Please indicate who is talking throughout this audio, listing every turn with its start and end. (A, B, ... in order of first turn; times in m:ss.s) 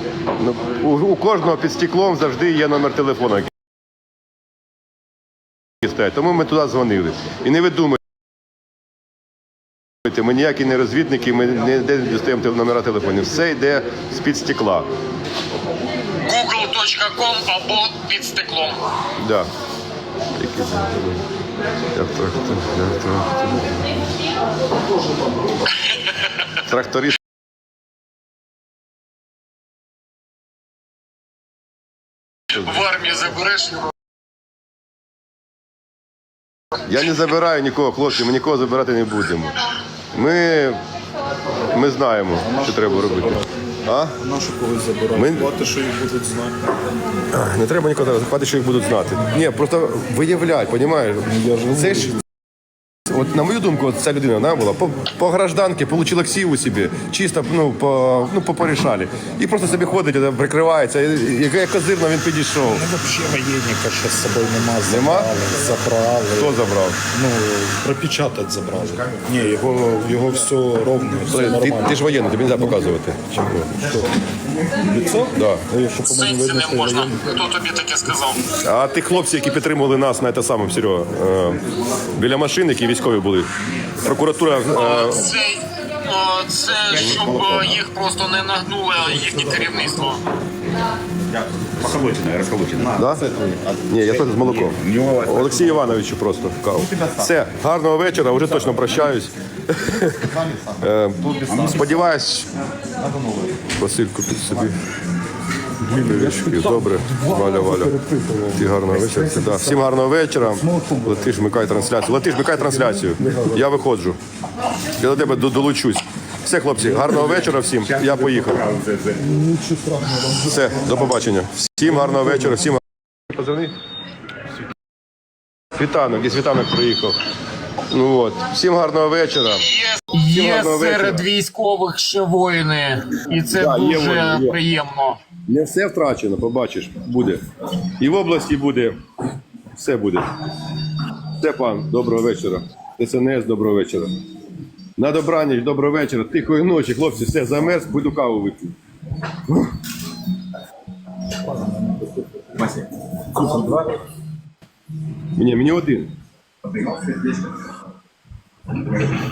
0:00.4-0:03.5 A
0:05.8-0:08.0 A
0:10.0-0:14.9 A
0:16.2-0:18.8 B
0:19.2-0:19.5 A
0:20.4-0:21.2 A
0:21.9-0:24.0 A
0:26.6-0:27.2 A
0:32.5-0:33.9 B
0:36.9-0:40.8 A
0:41.7-0:44.2 A
0:42.4-0:43.4 C
0:44.2-0:46.6 C
0:45.2-0:45.5 A
0:47.3-0:52.2 A
0:51.3-0:52.1 C
0:53.1-1:02.9 A
1:02.7-1:12.9 C
1:04.8-1:05.3 A
1:06.4-1:07.0 A
1:11.3-1:13.7 A
1:13.6-1:14.1 C
1:14.8-1:17.2 C
1:15.3-1:15.6 A
1:16.0-1:18.5 B
1:18.6-1:23.5 A
1:24.0-1:25.3 A
1:24.7-1:30.2 B
1:27.3-1:27.8 D
1:31.6-1:35.9 D
1:33.0-1:33.3 A
1:33.9-1:42.5 A
1:41.5-1:41.8 D
1:43.8-1:44.8 A
1:45.8-1:48.0 A
1:45.9-1:49.8 C
1:48.5-1:54.2 A
1:50.6-1:51.1 C
1:53.2-1:53.6 C
1:55.0-1:58.7 A
1:58.0-1:59.2 D
1:59.2-2:00.9 C
2:00.4-2:03.8 A
2:05.8-2:07.2 A
2:07.9-2:09.7 A
2:09.6-2:15.2 B
2:10.3-2:11.3 A
2:13.5-2:14.6 A
2:15.4-2:19.0 A
2:19.7-2:20.3 A
2:21.4-2:24.1 A
2:25.0-2:28.7 A
2:29.5-2:29.7 A
2:33.4-2:33.8 A
2:35.3-2:36.1 A